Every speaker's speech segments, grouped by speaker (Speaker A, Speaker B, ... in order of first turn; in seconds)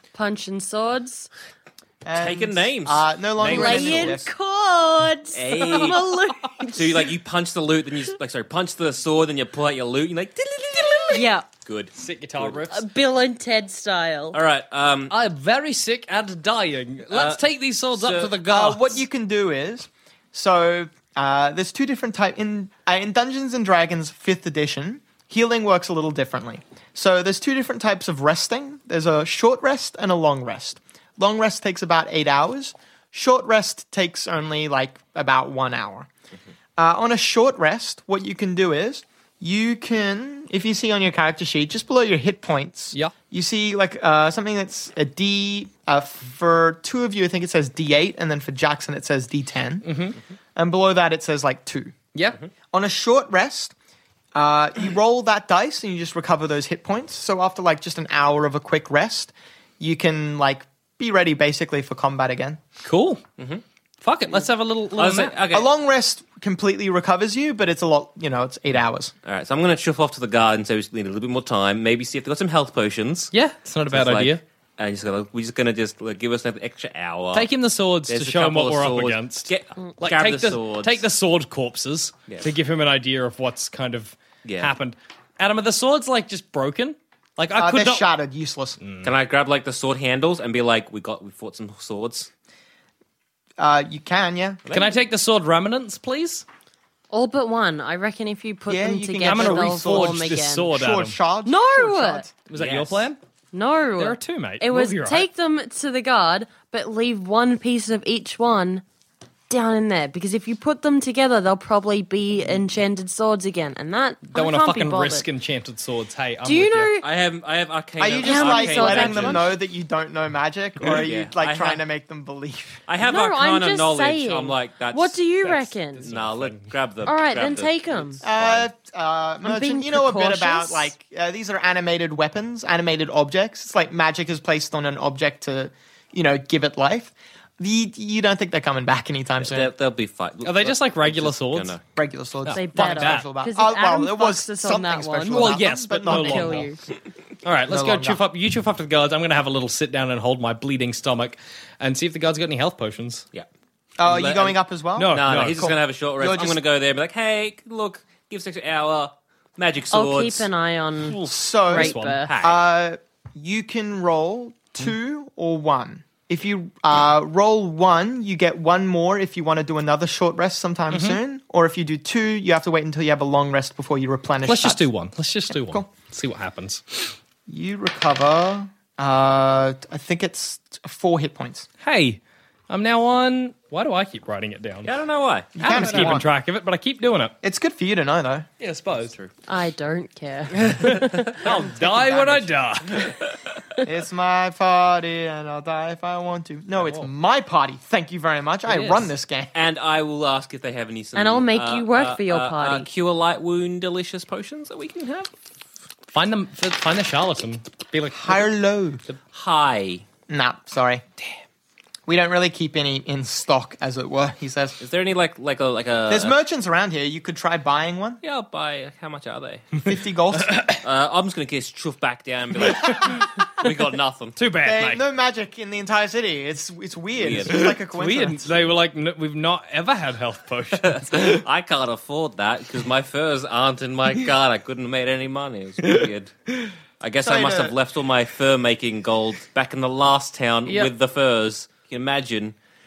Speaker A: 0.1-1.3, 3.4-7.0, 11.1-11.5, 12.7-14.4, 97.1-100.7, 101.5-102.3, 103.5-108.8, 109.5-115.3, 116.4-117.1, 118.2-119.5, 123.0-126.0, 127.0-128.2, 129.4-130.9, 142.5-146.8, 159.9-161.2, 161.8-162.4, 189.5-191.2, 201.2-202.9
Speaker B: 2.0-4.3, 18.5-36.1, 36.8-49.9, 50.6-51.9, 52.7-53.8, 54.4-62.6, 65.5-69.1, 87.5-88.8, 93.6-94.6, 98.7-102.3, 118.0-122.8, 128.2-139.7, 141.9-146.7, 147.7-148.2, 154.0-156.6, 161.3-174.8, 175.5-175.9, 177.5-181.7, 185.6-186.3, 187.4-188.5, 191.5-192.5, 193.8-199.5, 208.2-209.0, 210.3-211.0, 212.1-214.8, 216.1-218.2, 219.8-220.7, 224.6-228.5, 237.2-237.7
Speaker C: 2.2-4.2, 5.3-6.2, 6.7-12.6, 14.3-15.1, 17.1-17.4, 17.9-18.4, 63.4-63.6, 65.0-65.7, 69.2-73.3, 73.9-77.5, 78.1-81.0, 84.4-84.7, 89.0-92.3, 94.7-95.0, 102.5-103.1, 117.0-119.6, 120.8-121.8, 122.9-125.2, 126.0-128.7, 139.4-141.8, 154.0-160.5, 161.0-162.6, 184.8-186.2, 188.9-189.3, 190.8-191.2, 198.7-205.3, 209.3-210.1, 214.8-216.3, 218.2-219.8, 220.8-224.4, 227.2-227.8, 230.8-236.3, 237.0-242.6
Speaker D: 12.0-12.9, 15.1-19.0, 49.8-50.2, 52.1-52.4, 62.8-63.2, 64.0-65.4, 73.3-74.4, 77.3-88.1, 88.8-89.1, 94.7-96.5, 99.2-101.2, 102.5-103.2, 104.0-105.3, 114.3-116.9, 125.4-126.7, 140.4-141.8, 142.4-143.3, 145.3-146.7, 147.4-153.2, 155.0-155.7, 161.7-162.3, 170.9-171.2, 174.5-177.1, 181.8-184.9, 185.6-187.3, 188.6-189.2, 190.5-193.2, 206.1-208.5, 220.5-220.8, 222.8-223.3, 224.4-225.0, 227.5-231.4, 240.7-240.9